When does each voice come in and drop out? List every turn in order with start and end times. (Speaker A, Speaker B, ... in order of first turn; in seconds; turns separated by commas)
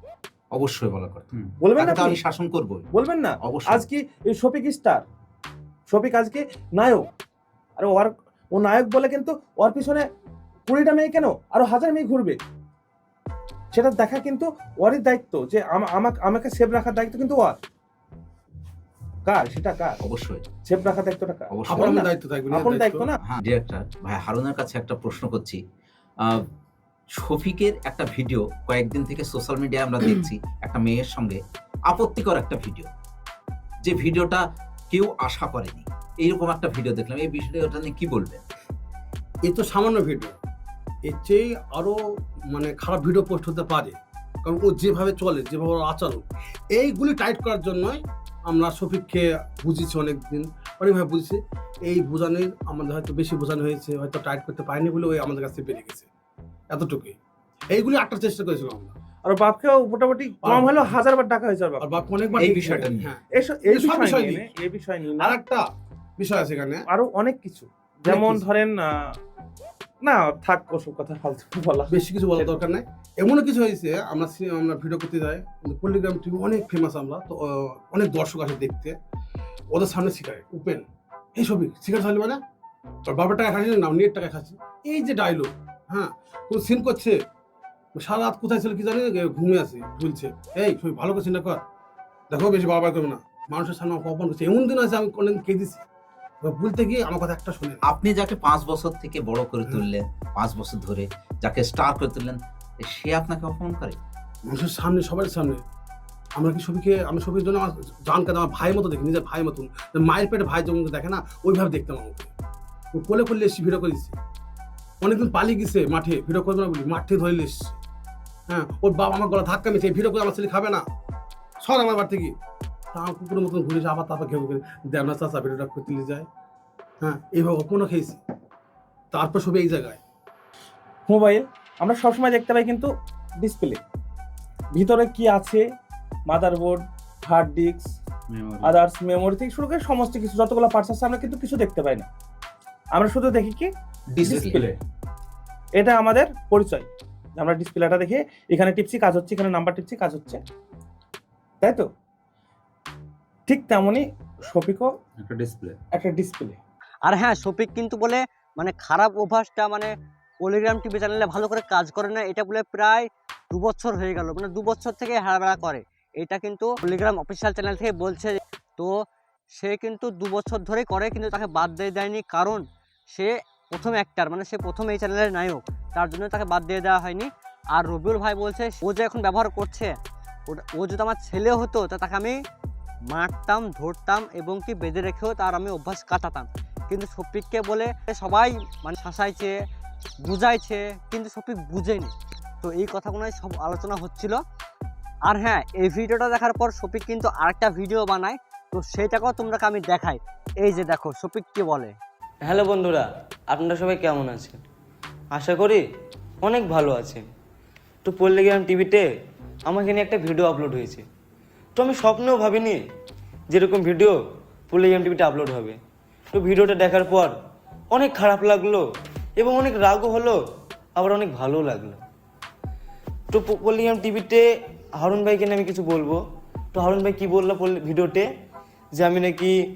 Speaker A: 0.5-2.9, Speaker B: 1.6-2.2, Speaker B: 2.9-5.0, Speaker A: 3.4-3.8, Speaker B: 5.9-7.1, Speaker B: 7.8-10.0, Speaker B: 10.7-12.4, Speaker B: 13.7-17.6, Speaker B: 19.3-20.0, Speaker A: 20.0-20.4, Speaker B: 20.7-23.2, Speaker A: 21.5-21.9, Speaker C: 21.7-23.1, Speaker A: 23.2-25.6, Speaker A: 27.2-32.9, Speaker A: 33.8-38.4, Speaker C: 39.5-40.4, Speaker C: 41.1-42.0, Speaker C: 42.5-56.1, Speaker C: 56.7-57.1, Speaker C: 57.7-58.9, Speaker B: 59.2-61.9, Speaker C: 60.4-61.0, Speaker C: 61.8-64.5, Speaker A: 62.4-63.1, Speaker B: 63.4-65.3, Speaker C: 65.2-65.6, Speaker C: 66.2-66.8, Speaker B: 66.9-68.9, Speaker C: 68.1-68.4, Speaker B: 70.0-72.6, Speaker C: 71.9-79.0, Speaker C: 79.7-82.4, Speaker C: 83.1-87.2, Speaker C: 88.0-91.6, Speaker C: 92.3-95.8, Speaker C: 96.4-97.8, Speaker A: 97.9-104.0, Speaker C: 104.5-105.6, Speaker C: 106.4-112.3, Speaker C: 112.9-114.2, Speaker C: 115.0-117.8, Speaker C: 118.5-120.8, Speaker C: 121.6-122.3, Speaker C: 122.9-126.3, Speaker C: 127.0-128.2, Speaker C: 129.1-130.0, Speaker B: 131.1-132.9, Speaker B: 133.4-133.8, Speaker B: 134.7-135.6, Speaker B: 136.3-137.9, Speaker A: 138.3-138.8, Speaker B: 138.6-142.1, Speaker B: 142.9-143.7, Speaker A: 144.1-144.8, Speaker B: 144.2-144.7, Speaker B: 145.8-150.4, Speaker B: 151.6-151.9, Speaker B: 153.5-154.9, Speaker A: 155.2-155.8, Speaker B: 155.9-156.6, Speaker D: 157.1-159.9, Speaker D: 160.4-168.9, Speaker D: 169.6-179.9, Speaker D: 180.5-182.4, Speaker D: 183.1-189.5, Speaker D: 190.2-194.4, Speaker D: 195.3-201.9, Speaker E: 202.4-204.6, Speaker E: 205.3-205.8, Speaker E: 206.4-207.2, Speaker E: 208.0-209.1, Speaker E: 209.7-211.0, Speaker E: 211.8-212.8, Speaker E: 213.5-214.2, Speaker E: 214.7-215.8, Speaker E: 216.3-217.3, Speaker E: 217.9-218.8, Speaker E: 219.4-220.4, Speaker E: 221.0-222.0, Speaker E: 223.3-224.4, Speaker E: 225.0-226.2, Speaker E: 226.7-228.3, Speaker E: 228.9-229.5